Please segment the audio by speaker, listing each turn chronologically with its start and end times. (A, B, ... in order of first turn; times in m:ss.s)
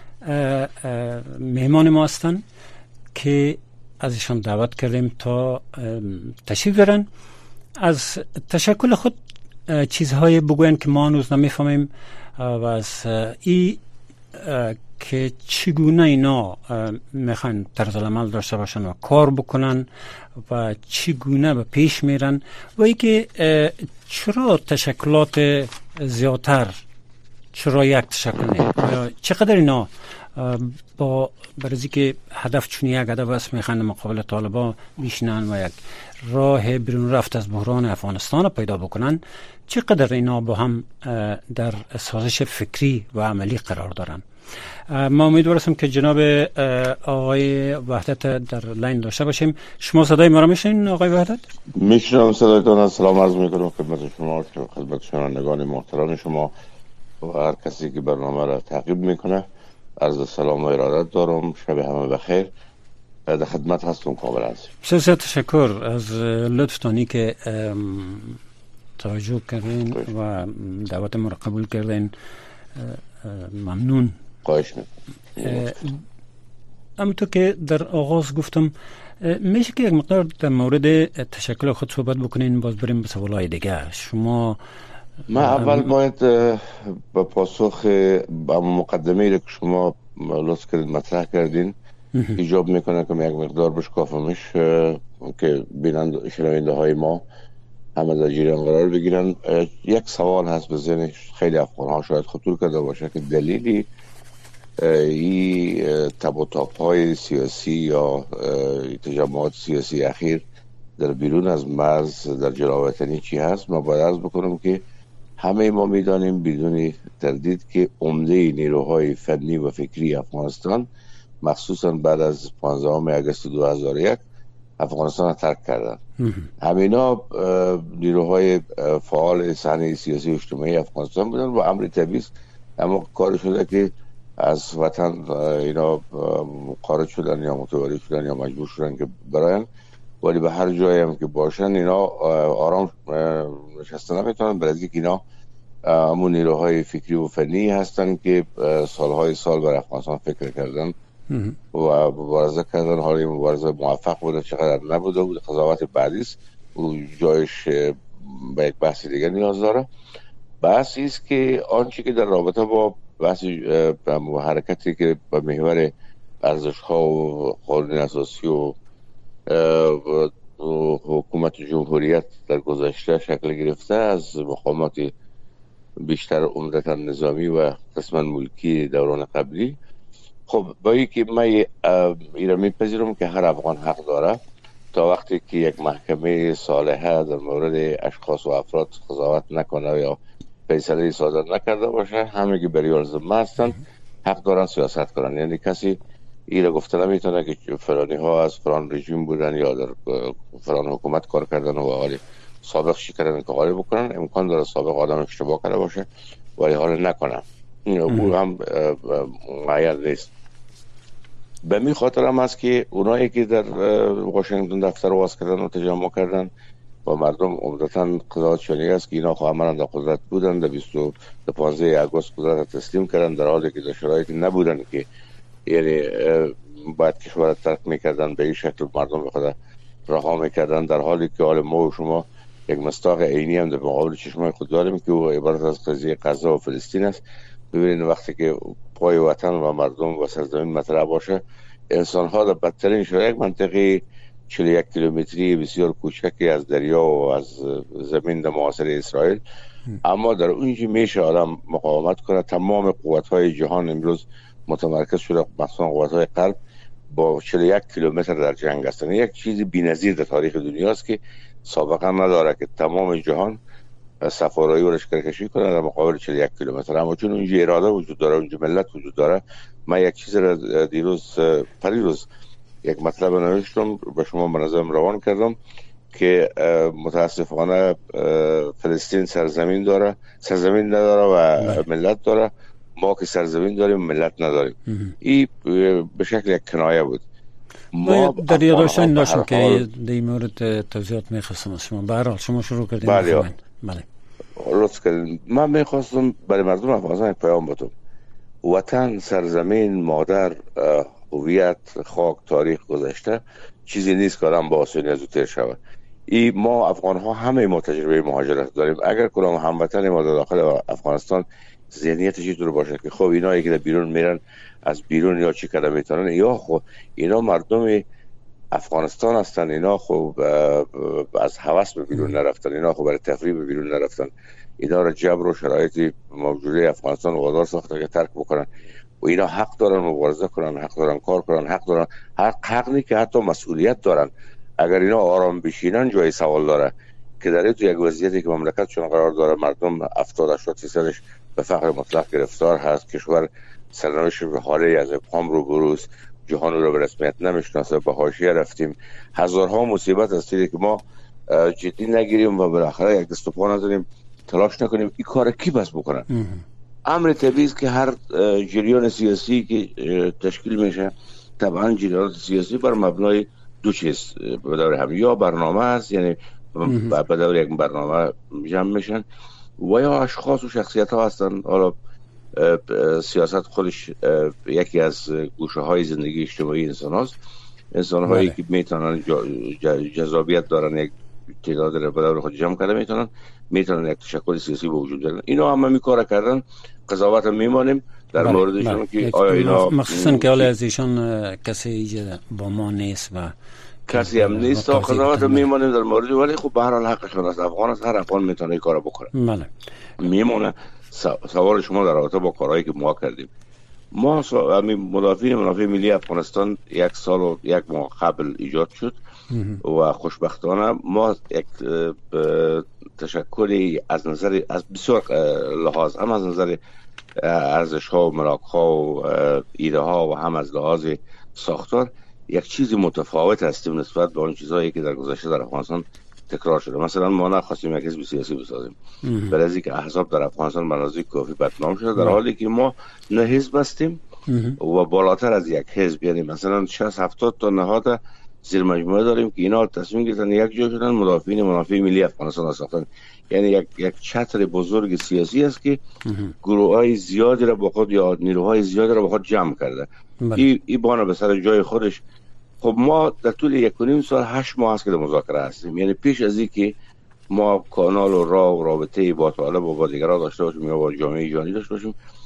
0:00.2-0:02.4 A
0:03.1-0:07.1 A
0:07.8-0:13.8 A
0:14.3-0:19.9 A
0:20.4-0:26.8 A
0:27.5-0:44.2 A
0:44.9-0:51.4 A
0:51.8-0:56.5 B
0:57.2-0:59.5 B
1:00.0-1:02.5 B
1:03.3-1:04.7 B
1:04.8-1:08.4 A
1:09.0-1:12.1 A
1:12.8-1:14.2 A
1:14.4-1:15.7 B
1:15.4-1:16.0 A
1:17.0-1:24.6 A
1:25.3-1:31.7 B
1:25.3-1:25.9 A
1:32.1-1:32.4 A
1:32.4-1:37.2 B
1:38.0-1:43.9 B
1:44.8-1:50.4 B
1:51.0-1:54.8 B
1:55.4-2:00.9 B
2:01.4-2:04.2 B
2:04.8-2:06.0 B
2:06.2-2:06.5 A
2:06.6-2:19.7 B
2:20.2-2:25.2 B
2:25.8-2:30.9 B
2:31.3-2:31.6 A
2:31.7-2:39.8 B
2:40.6-2:45.9 B
2:46.4-2:48.8 B
2:49.5-2:55.1 B
2:56.0-2:59.8 B
3:00.5-3:04.4 B
3:04.9-3:30.3 B
3:31.6-3:36.5 B
3:37.0-3:45.0 B
3:45.6-3:49.5 B
3:50.1-4:09.4 B
4:10.0-4:16.6 B
4:17.1-4:23.6 B
4:24.2-4:32.3 B
4:32.8-4:35.6 B
4:36.1-4:47.2 B
4:41.6-4:41.8 A
4:44.9-4:45.1 A
4:47.9-4:49.8 B
4:48.0-4:54.0 A
4:53.0-4:53.5 B
4:54.6-4:57.9 B
4:58.6-5:18.0 B
5:18.7-5:28.7 B
5:29.2-5:56.2 B
5:56.3-5:56.6 A
5:57.0-6:09.2 B
6:06.8-6:07.2 A
6:09.8-6:11.9 B
6:12.5-6:17.4 B
6:17.9-6:30.7 B
6:18.3-6:18.6 A
6:28.4-6:33.5 A
6:34.1-6:39.3 B
6:34.1-6:35.7 A
6:39.3-6:39.7 A
6:40.2-6:43.5 B
6:44.1-6:49.2 B
6:49.5-6:49.8 A
6:49.8-6:56.8 B
6:57.4-7:09.0 B
7:09.2-7:09.6 A
7:09.5-7:14.2 B
7:14.5-7:14.8 A
7:14.8-7:26.0 B
7:26.2-7:26.5 A
7:26.6-7:32.2 B
7:32.8-7:36.9 B
7:37.5-7:42.1 B